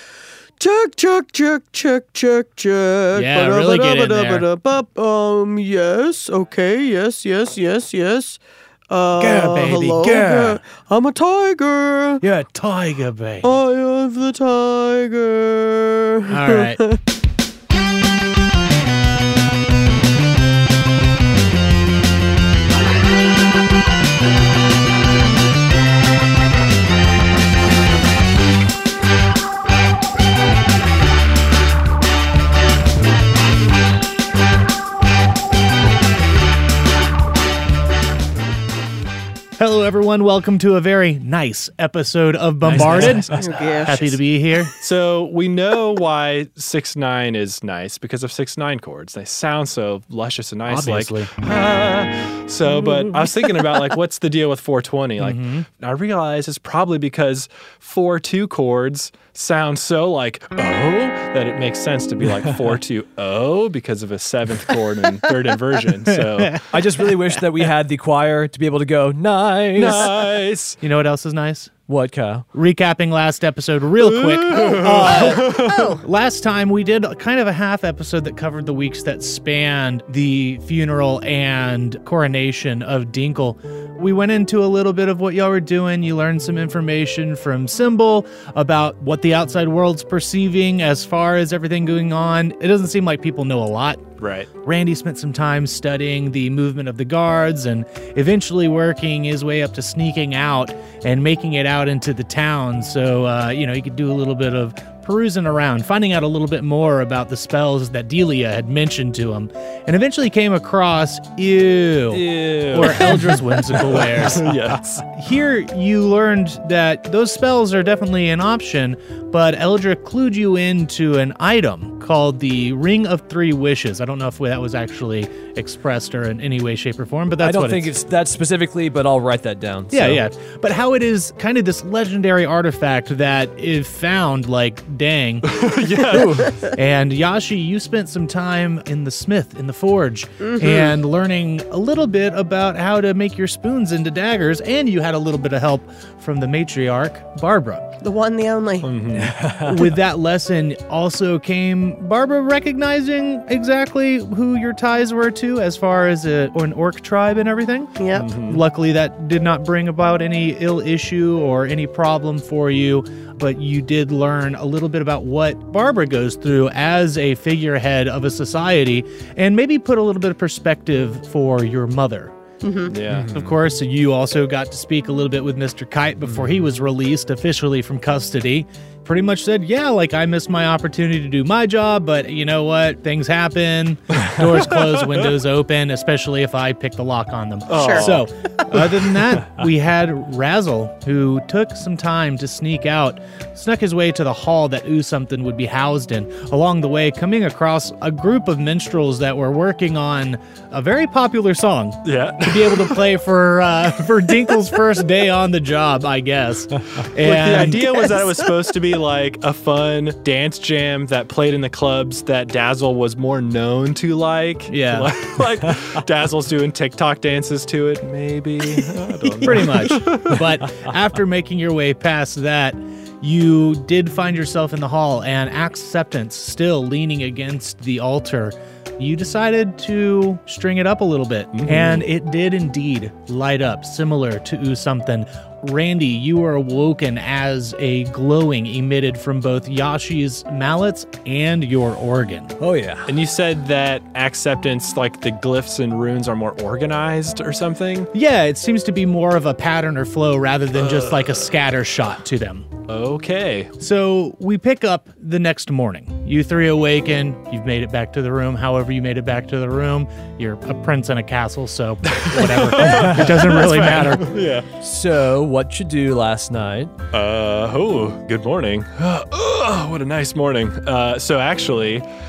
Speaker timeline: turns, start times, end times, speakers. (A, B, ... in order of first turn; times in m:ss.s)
0:00.6-0:12.2 A
0:03.1-0:04.5 B
0:09.1-0:10.6 B
0:12.2-0:13.5 B
0:13.4-0:17.0 A
0:16.3-0:16.8 B
0:39.6-0:43.3 B
0:42.7-0:43.9 C
0:42.7-0:43.4 D
0:43.3-0:44.2 A
0:43.8-0:44.7 B
0:44.8-1:06.7 D
0:50.7-0:51.3 B
0:55.2-0:55.6 B
1:06.1-1:06.6 B
1:06.7-1:10.1 C
1:09.8-1:10.8 D
1:10.8-1:11.7 B
1:11.9-1:12.4 C
1:12.5-2:07.9 B
1:14.0-1:16.0 D
1:15.4-1:15.9 A
1:34.2-1:34.5 D
1:52.1-1:55.1 D
2:07.4-2:10.2 C
2:09.9-2:15.5 B
2:15.4-2:16.5 D
2:16.1-2:16.5 C
2:16.2-2:28.0 B
2:20.4-2:20.7 A
2:28.0-2:28.9 A
2:28.8-2:29.4 D
2:29.1-2:29.8 C
2:29.6-2:52.3 B
2:38.0-2:38.3 A
2:38.1-2:38.6 D
2:52.6-2:52.9 A
2:52.9-2:53.5 D
2:53.0-3:27.9 B
3:04.8-3:05.1 D
3:07.7-3:08.2 D
3:07.7-3:08.1 A
3:22.0-3:23.0 D
3:27.1-3:40.5 D
3:34.7-3:35.1 B
3:39.4-4:02.6 B
3:51.5-3:52.1 D
4:02.6-4:03.1 C
4:03.0-4:08.1 D
4:08.1-4:12.7 B
4:10.8-4:11.5 D
4:12.9-4:13.7 D
4:13.8-4:24.3 B
4:22.1-4:24.7 D
4:24.8-4:27.0 C
4:27.1-4:32.0 D